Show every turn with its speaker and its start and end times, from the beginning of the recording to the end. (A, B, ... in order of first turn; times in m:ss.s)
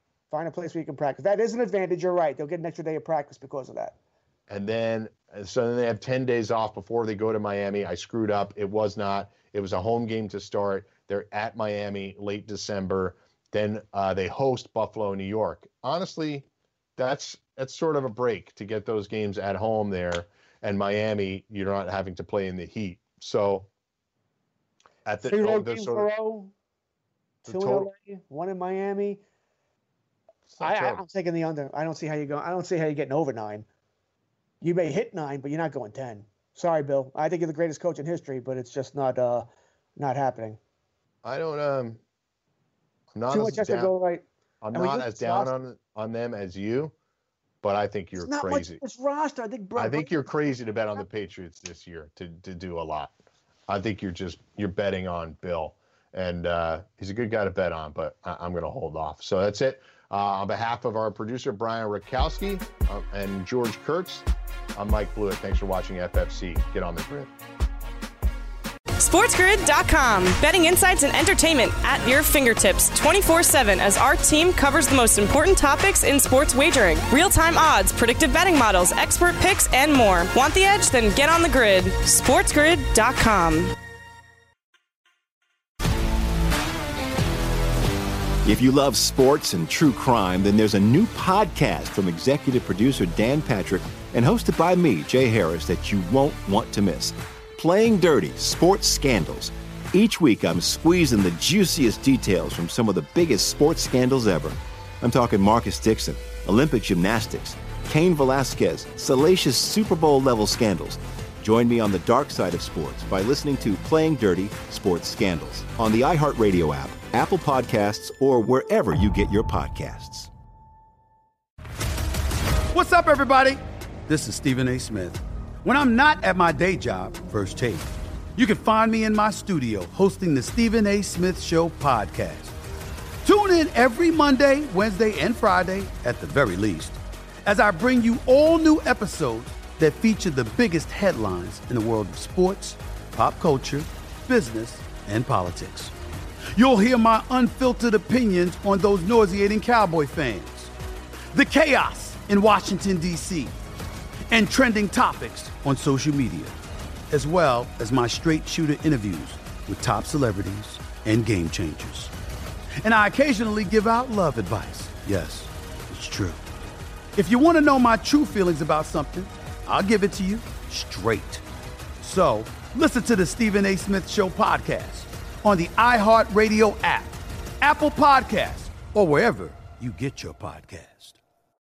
0:00.3-0:03.9 A
0:04.5-0:23.7 B
0:25.0-0:26.1 B
0:25.2-0:26.5 A
0:27.4-0:27.9 B
0:27.4-0:29.2 A
0:30.5-0:31.0 B
0:30.6-0:33.6 A
0:34.6-0:40.6 A
0:41.2-0:42.0 B
0:43.1-0:43.9 B
0:43.3-0:45.5 A
0:44.6-0:46.9 B
0:47.6-0:48.8 B
0:48.2-0:50.2 A
0:49.8-0:53.2 B
0:53.7-1:07.3 B
1:09.0-1:23.7 C
1:28.4-2:00.3 D
2:02.7-2:12.5 E
2:13.2-2:25.9 E
2:26.5-2:30.7 E
2:31.3-2:33.6 E
2:34.3-2:36.6 E
2:37.1-2:42.1 E
2:42.8-2:46.4 E
2:47.2-2:51.4 E
2:52.0-3:01.2 E